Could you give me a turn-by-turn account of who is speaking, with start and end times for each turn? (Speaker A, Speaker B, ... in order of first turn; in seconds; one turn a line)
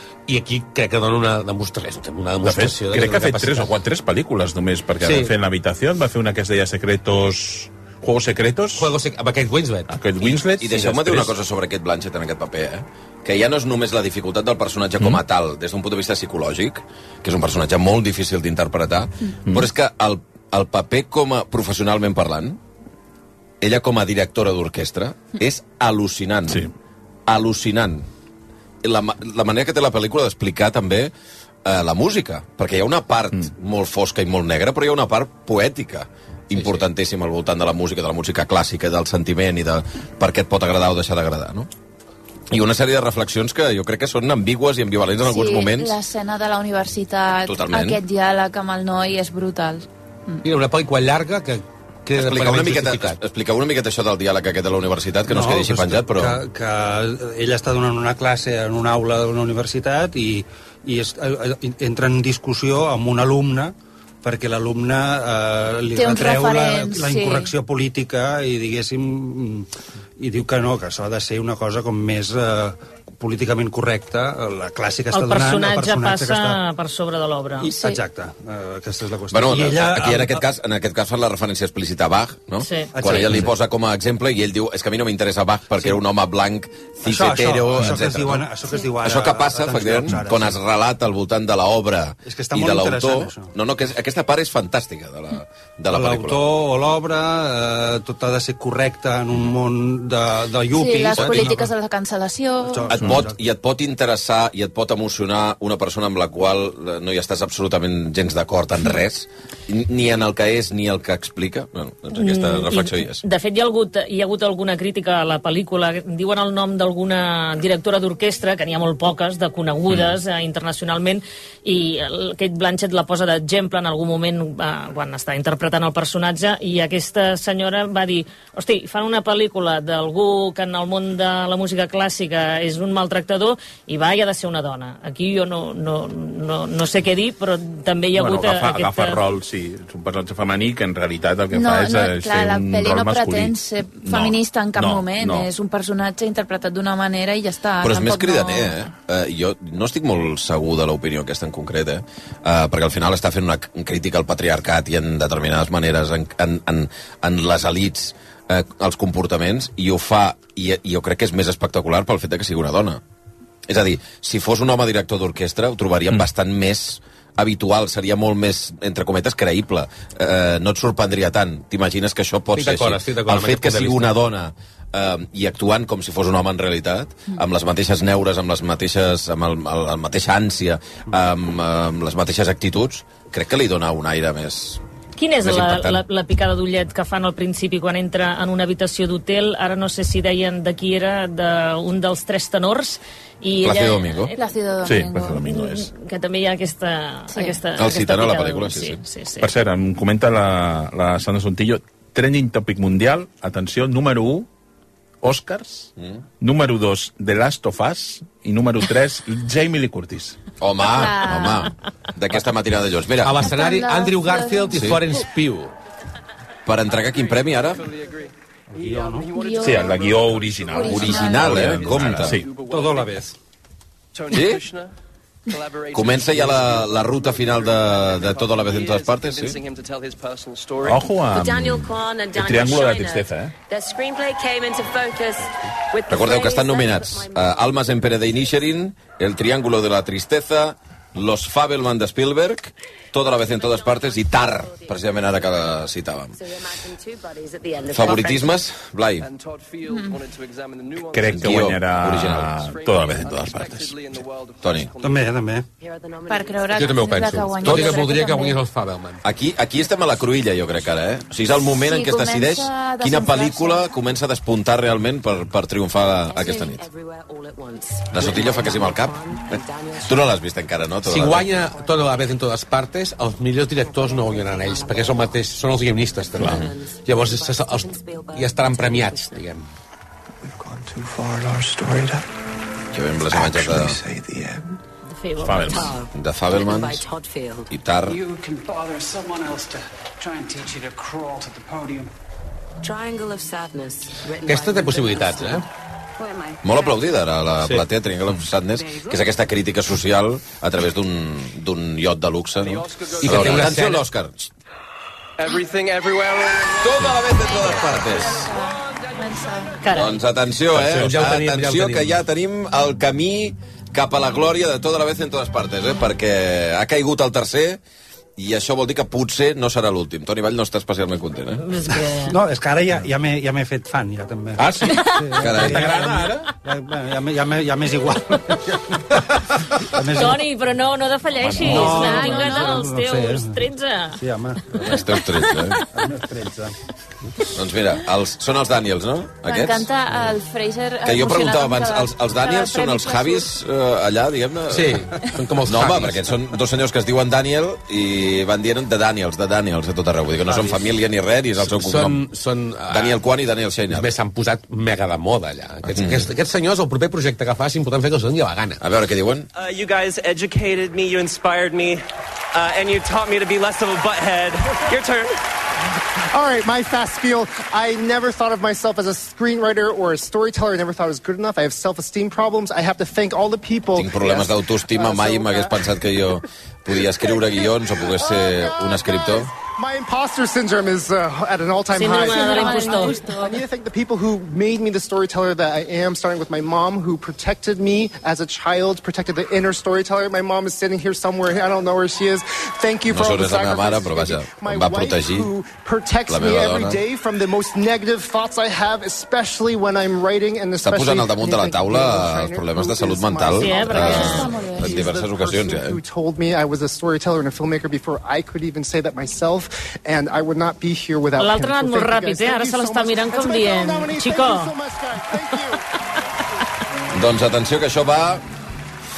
Speaker A: 0.3-3.7
Speaker B: 2.4-8.9
Speaker A: 5.0-5.3
Speaker A: 8.7-10.0
Speaker B: 9.9-11.3
Speaker C: 10.5-22.6
Speaker C: 23.6-26.7
Speaker C: 27.3-28.1
Speaker C: 28.8-31.1
Speaker C: 31.6-41.7
Speaker A: 36.5-36.9
Speaker C: 42.5-46.0
Speaker D: 45.2-50.4
Speaker C: 47.5-48.0
Speaker A: 50.4-53.2
Speaker C: 52.1-56.4
Speaker E: 55.3-76.6
Speaker D: 65.9-67.5
Speaker F: 75.1-77.7
Speaker E: 77.6-80.4
Speaker D: 77.7-78.0
Speaker C: 79.3-88.5
Speaker F: 82.6-83.2
Speaker E: 82.9-83.5
Speaker E: 87.0-90.6
Speaker C: 89.0-96.4
Speaker E: 92.2-93.5
Speaker E: 95.9-101.7
Speaker D: 100.7-103.0
Speaker E: 102.6-103.4
Speaker C: 102.9-113.2
Speaker F: 112.1-139.2
Speaker B: 138.1-145.5
Speaker D: 141.5-148.7
Speaker C: 147.8-163.0
Speaker C: 163.7-184.8
Speaker A: 172.5-174.2
Speaker F: 185.2-194.3
Speaker C: 185.4-186.0
Speaker C: 193.6-194.3
Speaker D: 194.3-195.4
Speaker B: 194.8-195.9
Speaker F: 195.5-199.5
Speaker D: 197.3-197.6
Speaker C: 197.8-199.0
Speaker B: 199.4-204.5
Speaker B: 205.2-210.4
Speaker C: 210.6-213.4
Speaker D: 210.9-211.7
Speaker A: 213.2-215.7
Speaker D: 213.3-215.0
Speaker C: 214.7-215.0
Speaker C: 216.6-217.9
Speaker G: 216.9-223.3
Speaker E: 218.7-219.3
Speaker D: 219.3-219.8
Speaker B: 219.6-222.5
Speaker D: 220.7-221.6
Speaker C: 220.8-222.4
Speaker E: 222.6-223.3
Speaker G: 224.1-224.9
Speaker C: 224.3-224.6
Speaker G: 225.5-231.1
Speaker C: 225.9-229.6
Speaker B: 230.8-233.6
Speaker H: 231.3-238.5
Speaker C: 236.1-246.3
Speaker H: 243.6-245.3
Speaker H: 246.3-248.5
Speaker C: 247.9-249.3
Speaker G: 249.2-251.7
Speaker D: 249.8-250.2
Speaker B: 251.0-254.2
Speaker C: 251.3-252.6
Speaker G: 252.5-255.5
Speaker C: 254.6-254.9
Speaker E: 255.0-255.6
Speaker H: 255.8-258.0
Speaker D: 256.2-258.6
Speaker A: 256.7-259.2
Speaker C: 259.2-266.9
Speaker D: 261.7-263.9
Speaker H: 266.3-270.2
Speaker C: 268.1-271.6
Speaker A: 271.0-279.7
Speaker H: 271.6-272.3
Speaker H: 273.8-275.3
Speaker H: 276.3-279.4
Speaker B: 276.4-276.6
Speaker C: 282.9-284.0
Speaker F: 285.1-285.9
Speaker B: 285.4-286.0
Speaker H: 285.9-287.7
Speaker C: 286.1-287.1
Speaker C: 287.7-288.2
Speaker I: 288.1-292.1
Speaker H: 292.8-295.6
Speaker A: 294.4-295.6
Speaker H: 296.3-296.6
Speaker C: 296.6-304.5
Speaker G: 302.6-303.8
Speaker A: 303.2-304.1
Speaker G: 305.4-309.7
Speaker C: 306.8-308.5
Speaker D: 307.4-309.8
Speaker F: 309.8-310.2
Speaker C: 309.9-317.8
Speaker B: 310.7-311.1
Speaker A: 310.8-312.2
Speaker C: 318.4-321.6
Speaker F: 321.6-322.4
Speaker E: 322.1-328.9
Speaker B: 324.6-326.5
Speaker C: 325.4-325.9
Speaker E: 329.9-330.4
Speaker F: 330.1-334.2
Speaker B: 331.4-331.8
Speaker D: 331.6-332.8
Speaker E: 331.6-333.6
Speaker E: 334.2-335.1
Speaker C: 334.9-335.8
Speaker E: 335.9-336.7
Speaker C: 337.5-339.9
Speaker D: 339.4-343.5
Speaker C: 341.0-345.1
Speaker A: 344.7-346.4
Speaker C: 345.6-352.2
Speaker E: 350.5-350.8
Speaker A: 351.6-353.2
Speaker C: 352.9-354.1
Speaker A: 353.9-358.8
Speaker C: 355.9-356.2
Speaker C: 358.8-359.5
Speaker J: 359.5-365.4
Speaker K: 366.3-375.8
Speaker C: 373.9-379.5
Speaker K: 377.2-415.8
Speaker F: 381.9-383.3
Speaker D: 382.0-383.6
Speaker C: 393.1-395.5
Speaker C: 396.3-397.0
Speaker C: 400.8-406.0
Speaker F: 403.5-404.6
Speaker D: 403.8-405.1
Speaker F: 411.4-414.7
Speaker C: 417.1-418.4